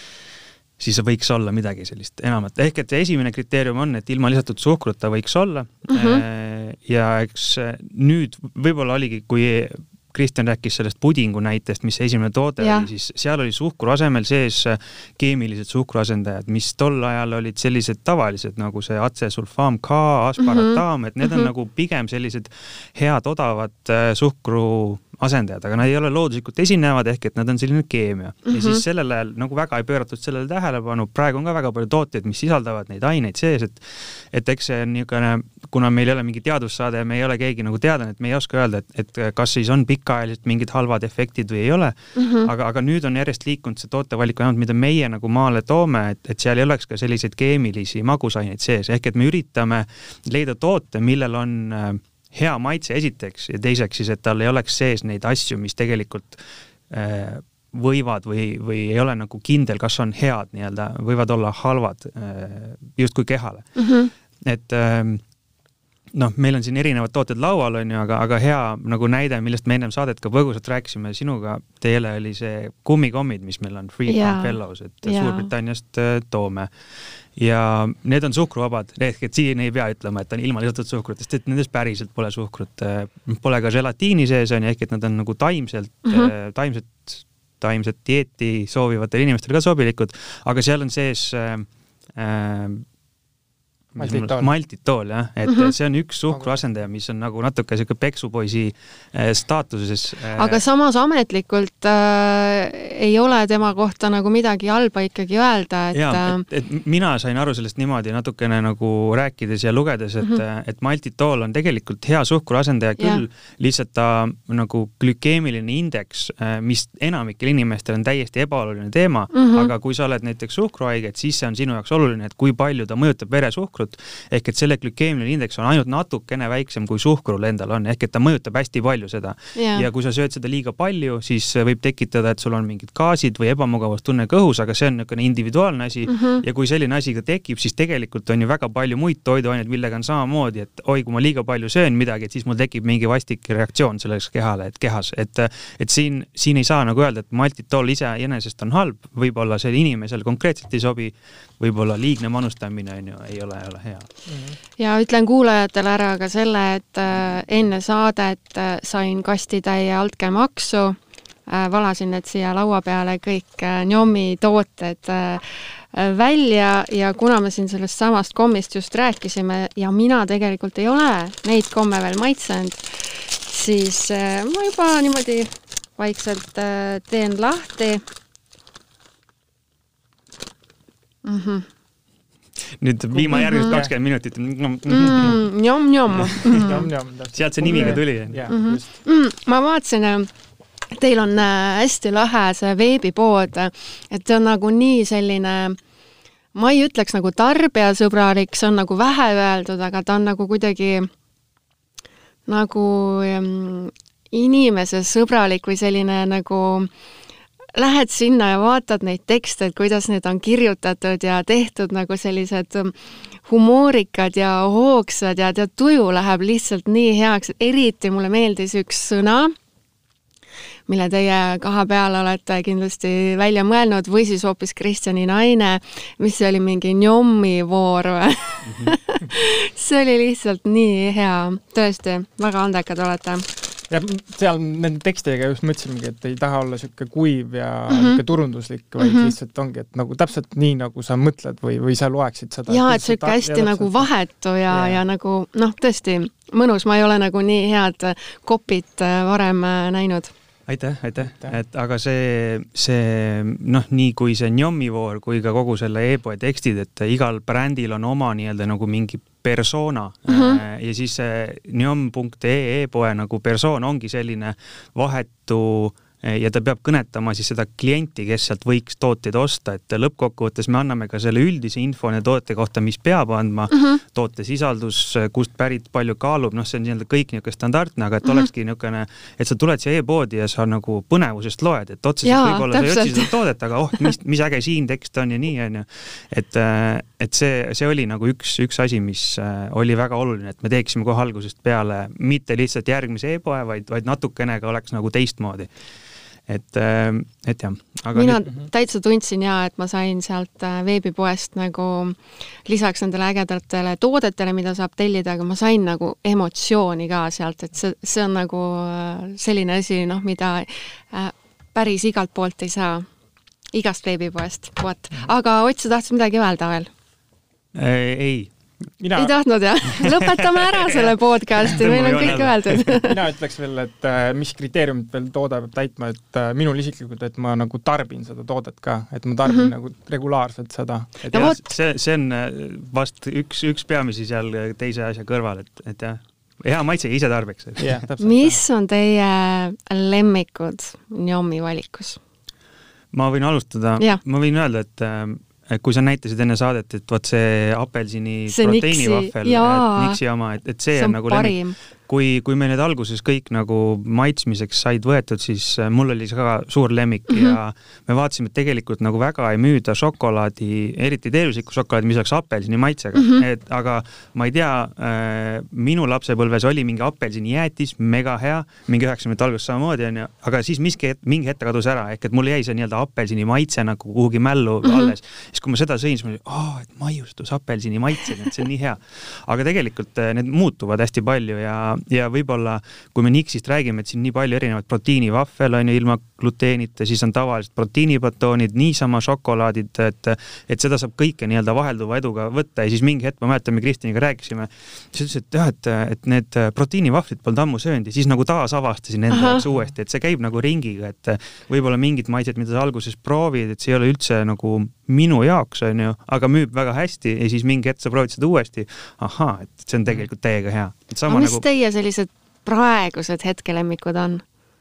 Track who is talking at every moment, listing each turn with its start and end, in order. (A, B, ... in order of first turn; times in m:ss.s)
0:00.8-1:03.7 A
0:05.9-0:06.2 B
0:12.6-0:12.9 B
0:20.4-0:21.5 B
0:28.5-0:28.8 B
0:42.2-0:42.5 B
1:03.8-1:04.1 B
1:04.4-1:05.2 A
1:06.1-1:16.7 A
1:14.1-1:15.5 B
1:17.4-1:32.8 A
1:33.9-1:40.6 A
1:34.0-1:34.5 C
1:40.4-1:46.4 B
1:45.9-2:34.1 A
1:59.3-1:59.7 B
2:09.6-2:09.8 B
2:16.1-2:16.4 B
2:34.3-2:34.6 C
2:34.8-2:58.0 B
3:01.2-3:01.7 B
3:02.8-3:05.4 A
3:03.1-3:03.9 C
3:03.3-3:03.7 B
3:04.9-3:06.8 B
3:06.2-3:06.8 A
3:06.6-3:08.9 C
3:07.3-3:08.5 A
3:08.5-3:10.3 B
3:10.9-3:15.8 B
3:16.5-3:21.1 B
3:22.5-3:26.9 B
3:27.7-3:39.5 B
3:40.9-3:53.5 B
3:48.6-3:48.9 A
3:53.9-4:04.1 C
3:57.9-3:58.2 B
3:59.0-3:59.3 B
4:02.7-4:10.3 B
4:04.7-4:05.0 C
4:10.7-4:55.7 A
4:11.2-4:11.5 C
4:20.3-4:20.6 B
4:42.2-4:43.3 B
4:56.5-4:58.4 A
4:58.1-5:13.1 B
5:13.7-5:16.9 B
5:17.7-5:18.5 A
5:19.0-5:19.3 C
5:19.2-5:23.2 B
5:20.0-5:23.0 A
5:23.0-5:31.5 C
5:31.3-5:31.6 B
5:31.3-5:38.5 A
5:37.8-5:38.2 C
5:38.2-5:42.2 B
5:43.1-5:51.6 A
5:48.5-5:50.2 B
5:50.9-5:51.7 B
5:52.1-6:51.6 A
5:57.3-5:57.6 B
6:03.1-6:03.4 B
6:14.8-6:15.1 B
6:39.3-6:39.6 B
6:51.3-6:54.4 B